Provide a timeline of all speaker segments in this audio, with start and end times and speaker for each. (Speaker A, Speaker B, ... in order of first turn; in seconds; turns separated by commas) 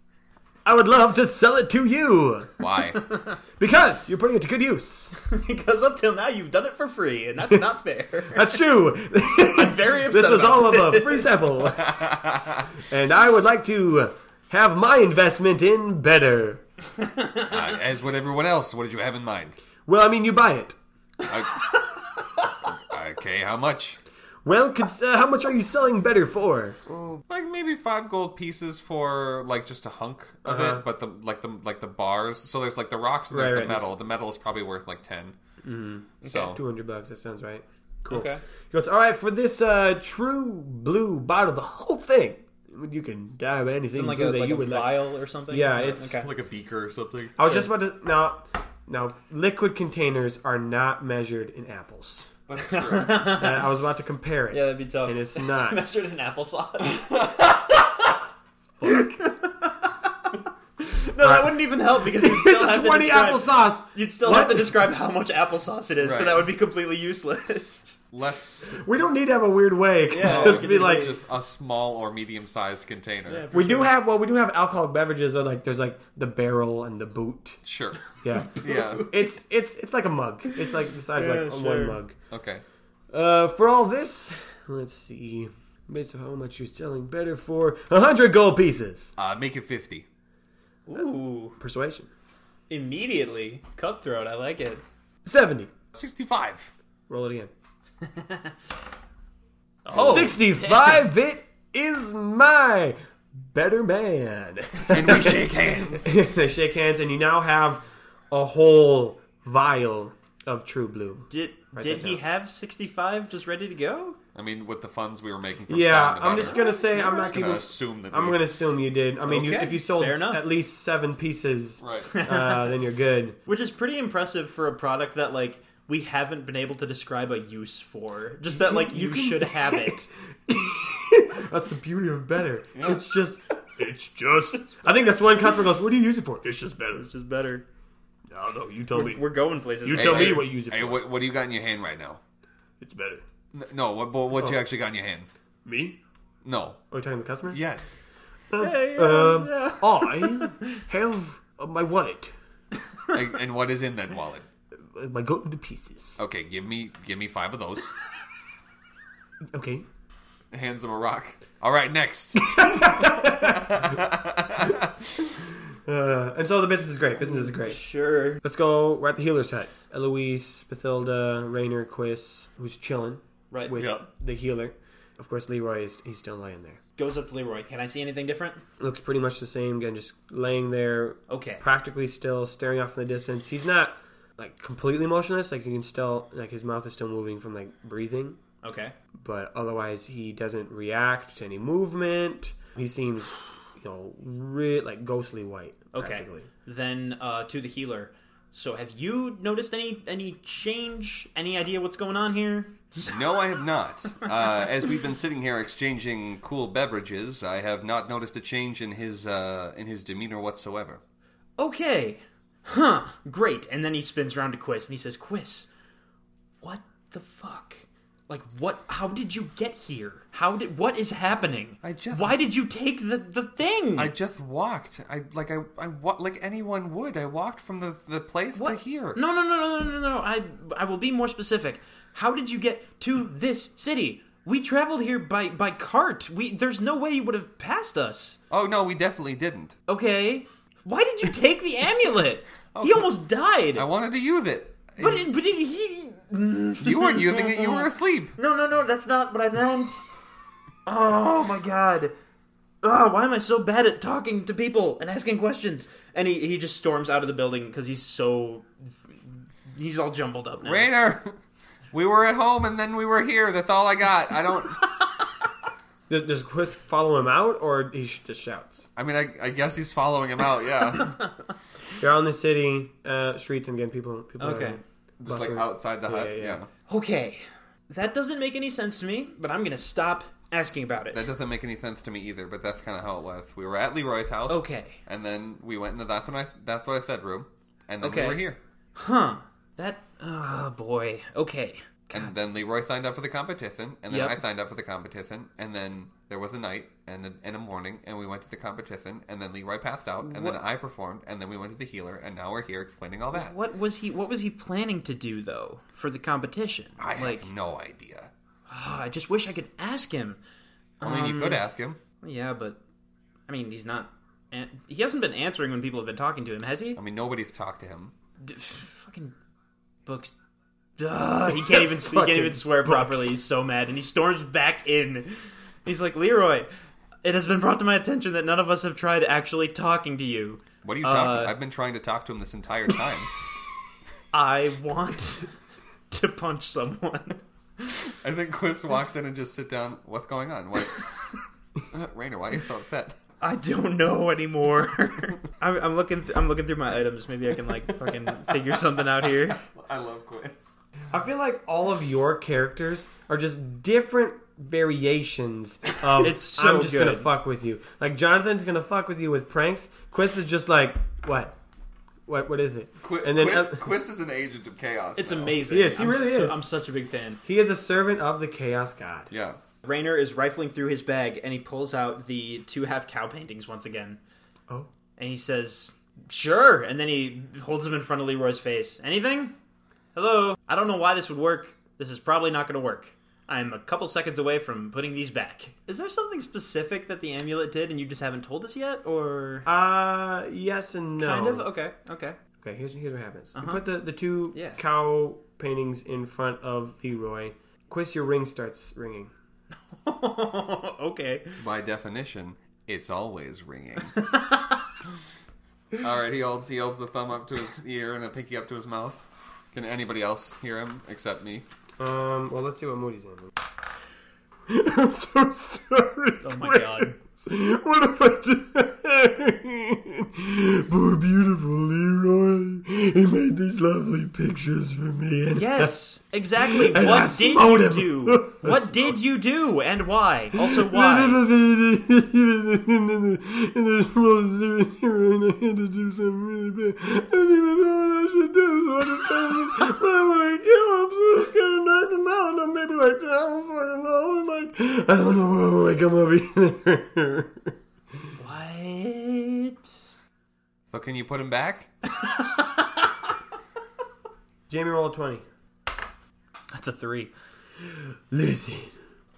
Speaker A: 0.7-2.5, Speaker B: 2.6-3.0, Speaker A: 3.6-5.2, Speaker C: 5.3-8.6, Speaker A: 8.3-16.6, Speaker C: 9.4-11.5, Speaker B: 11.8-12.7, Speaker C: 17.2-17.5, Speaker B: 17.5-19.6, Speaker A: 19.9-20.8, Speaker B: 21.3-21.7, Speaker B: 22.7-24.0, Speaker A: 24.4-26.8, Speaker B: 26.9-35.4, Speaker A: 30.4-30.9, Speaker A: 33.3-33.9, Speaker A: 35.6-46.1, Speaker B: 36.2-36.6, Speaker C: 36.2-36.5, Speaker C: 38.1-38.4, Speaker C: 43.9-46.3, Speaker B: 46.0-47.4, Speaker A: 47.4-52.3, Speaker B: 52.5-53.3, Speaker C: 52.7-53.7, Speaker A: 53.3-55.8, Speaker C: 54.5-58.1, Speaker A: 58.8-59.1, Speaker C: 58.8-68.0, Speaker A: 61.2-64.8, Speaker B: 66.0-66.5, Speaker B: 68.1-68.8, Speaker A: 68.8-71.1, Speaker C: 70.1-71.2, Speaker B: 70.2-73.5, Speaker C: 73.3-73.9, Speaker A: 73.5-77.6, Speaker B: 77.7-78.0, Speaker A: 78.2-82.2, Speaker B: 78.5-79.1, Speaker C: 78.6-79.0, Speaker C: 81.2-82.0, Speaker B: 82.3-82.6, Speaker A: 83.1-89.1, Speaker B: 89.2-90.1, Speaker C: 90.9-91.6, Speaker A: 91.6-92.1, Speaker C: 92.7-94.8, Speaker A: 95.2-95.7, Speaker B: 95.9-96.7, Speaker A: 97.1-97.5, Speaker C: 99.8-101.0, Speaker A: 99.9-112.2, Speaker B: 104.9-106.2, Speaker C: 111.3-114.2, Speaker B: 114.3-118.5, Speaker A: 115.7-123.4, Speaker C: 119.2-120.5, Speaker B: 121.8-122.1, Speaker C: 122.1-122.8, Speaker C: 123.5-130.1, Speaker A: 128.5-137.1, Speaker B: 132.8-133.0, Speaker C: 136.9-137.7, Speaker A: 138.3-139.3, Speaker C: 138.9-140.5, Speaker A: 139.8-141.1, Speaker B: 139.9-142.2, Speaker A: 142.8-143.2, Speaker B: 143.5-145.3, Speaker A: 145.7-146.0, Speaker B: 146.4-146.8, Speaker A: 146.9-147.6, Speaker B: 147.5-148.0, Speaker A: 148.5-152.3, Speaker C: 148.6-150.6, Speaker B: 153.1-154.5, Speaker A: 154.8-156.2, Speaker B: 156.2-157.9, Speaker A: 159.5-159.8, Speaker B: 160.5-165.0, Speaker A: 162.4-164.0, Speaker A: 165.9-167.8, Speaker C: 167.2-168.4, Speaker A: 168.4-176.8, Speaker C: 173.5-173.8, Speaker B: 173.8-174.1, Speaker C: 177.0-178.6, Speaker A: 178.8-188.4, Speaker C: 181.3-181.6, Speaker C: 188.6-188.9, Speaker A: 189.2-196.5, Speaker C: 195.9-203.6, Speaker B: 203.1-211.0, Speaker C: 211.6-215.7, Speaker C: 216.6-224.1, Speaker B: 221.8-222.4, Speaker B: 224.0-229.2, Speaker C: 228.6-238.4, Speaker B: 238.5-239.8, Speaker C: 239.9-243.9, Speaker B: 242.7-243.1, Speaker B: 243.8-245.3, Speaker C: 245.0-250.1, Speaker B: 246.8-248.4, Speaker C: 250.9-252.1, Speaker C: 252.8-260.9, Speaker B: 260.6-261.4, Speaker B: 261.9-264.8, Speaker A: 266.1-268.9, Speaker B: 269.0-271.2, Speaker A: 272.0-276.6, Speaker C: 274.4-274.8, Speaker B: 275.2-276.7, Speaker C: 276.9-281.2, Speaker B: 281.1-288.6, Speaker C: 284.5-285.0, Speaker C: 288.0-292.3, Speaker B: 292.1-303.6, Speaker C: 294.1-294.4, Speaker C: 300.2-300.6, Speaker C: 303.3-307.5, Speaker B: 307.0-308.3, Speaker C: 308.7-310.4, Speaker C: 311.0-311.6, Speaker B: 311.0-312.0, Speaker C: 312.2-312.8, Speaker C: 313.5-317.0, Speaker B: 316.9-318.1, Speaker C: 318.4-319.3, Speaker C: 320.1-320.3, Speaker C: 321.0-326.7, Speaker A: 321.5-323.3, Speaker C: 327.2-331.6, Speaker B: 330.8-333.3, Speaker C: 334.3-335.5, Speaker C: 336.1-338.0, Speaker B: 338.2-341.1, Speaker B: 341.9-343.2, Speaker C: 343.4-349.6, Speaker B: 349.5-350.8, Speaker A: 351.1-361.6, Speaker C: 356.1-357.3, Speaker A: 362.3-363.8, Speaker B: 363.0-365.6, Speaker C: 365.2-367.4, Speaker A: 365.7-366.6, Speaker A: 367.4-369.3, Speaker B: 369.3-369.6, Speaker C: 369.8-374.2, Speaker C: 375.2-379.5, Speaker C: 380.1-389.7, Speaker A: 389.6-391.7, Speaker C: 391.2-392.4, Speaker A: 392.6-399.3, Speaker C: 393.6-393.9, Speaker C: 394.5-394.8, Speaker C: 400.0-401.6, Speaker B: 401.6-404.1, Speaker C: 404.2-404.8, Speaker B: 406.0-411.7, Speaker A: 412.0-413.5, Speaker A: 414.7-426.0, Speaker C: 416.4-417.2, Speaker C: 425.6-431.4, Speaker A: 426.6-429.2, Speaker A: 430.6-447.7, Speaker C: 448.4-449.9, Speaker B: 450.9-451.9, Speaker C: 452.2-452.9, Speaker A: 454.7-455.4, Speaker C: 456.7-457.3, Speaker A: 458.3-458.9